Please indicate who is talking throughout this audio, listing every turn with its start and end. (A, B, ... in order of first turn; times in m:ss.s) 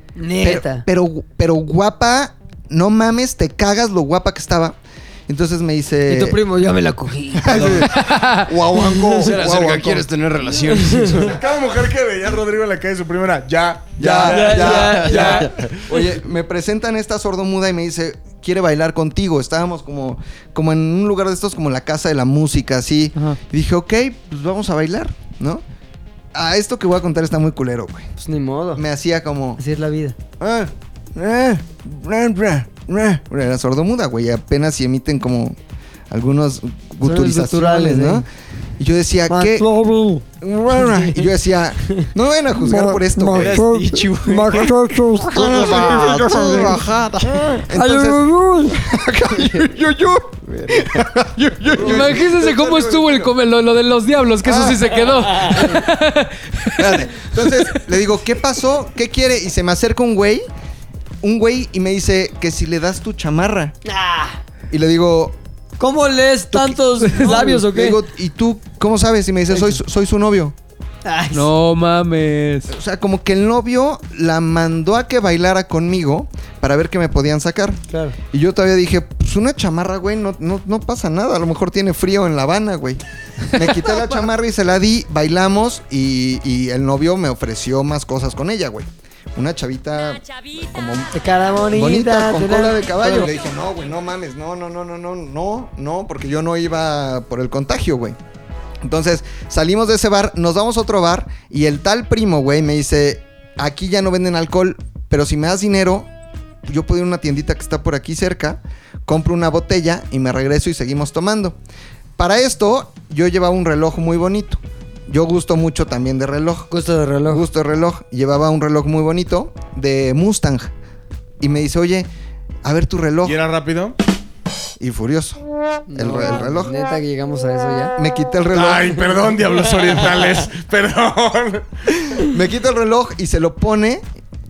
0:00.2-0:00.8 A
0:00.4-0:06.4 B
0:06.1-0:07.8 A
0:07.4-0:10.1 B
0:07.5-0:07.9 C
0:07.9-0:08.5 D
0:08.8-0:09.3 A
0:09.1-0:11.4 C
0:10.6-0:11.3 A
0:11.2-0:15.8 E
0:14.0-0:25.6 B
0:14.2-0:15.5 A
0:14.7-0:15.7 C
0:26.3-0:28.1 B
0:28.2-0:28.8 A
0:28.8-0:29.6 B
0:29.6-0:30.2 A
0:30.4-0:35.6 B
0:36.1-0:38.3 B
0:37.0-0:38.2 A
0:38.8-0:39.7 B
0:39.5-0:41.3 A
0:40.4-0:53.1 B
0:42.7-0:43.7 A
0:42.9-0:47.6 C
0:47.7-0:48.9 A
0:50.7-0:51.2 C
0:51.8-0:57.8 D
0:54.4-0:55.0 B
0:55.2-0:55.8 A
0:56.8-1:00.5 B
1:01.2-1:03.8 B
1:03.8-1:04.4 A
1:04.7-1:05.4 B
1:05.8-1:08.0 A
1:06.5-1:10.6 B
1:07.0-1:07.6 D
1:11.0-1:11.5 A
1:11.3-1:12.7 D
1:12.7-1:23.0 B
1:17.9-1:18.2 A
1:23.5-1:31.1 B
1:31.1-1:33.3 A
1:31.7-1:38.2 B
1:38.8-1:46.1 B
1:46.7-1:51.6 B
1:52.2-1:56.7 B
1:56.7-1:57.4 A
1:57.3-2:00.7 B
2:01.4-2:02.1 B
2:02.6-2:03.4 B
2:03.2-2:04.0 E
2:04.8-2:05.4 B
2:05.9-2:08.0 A
2:06.0-2:06.7 B
2:08.0-2:09.2 B
2:08.5-2:11.7 E
2:12.1-2:14.0 B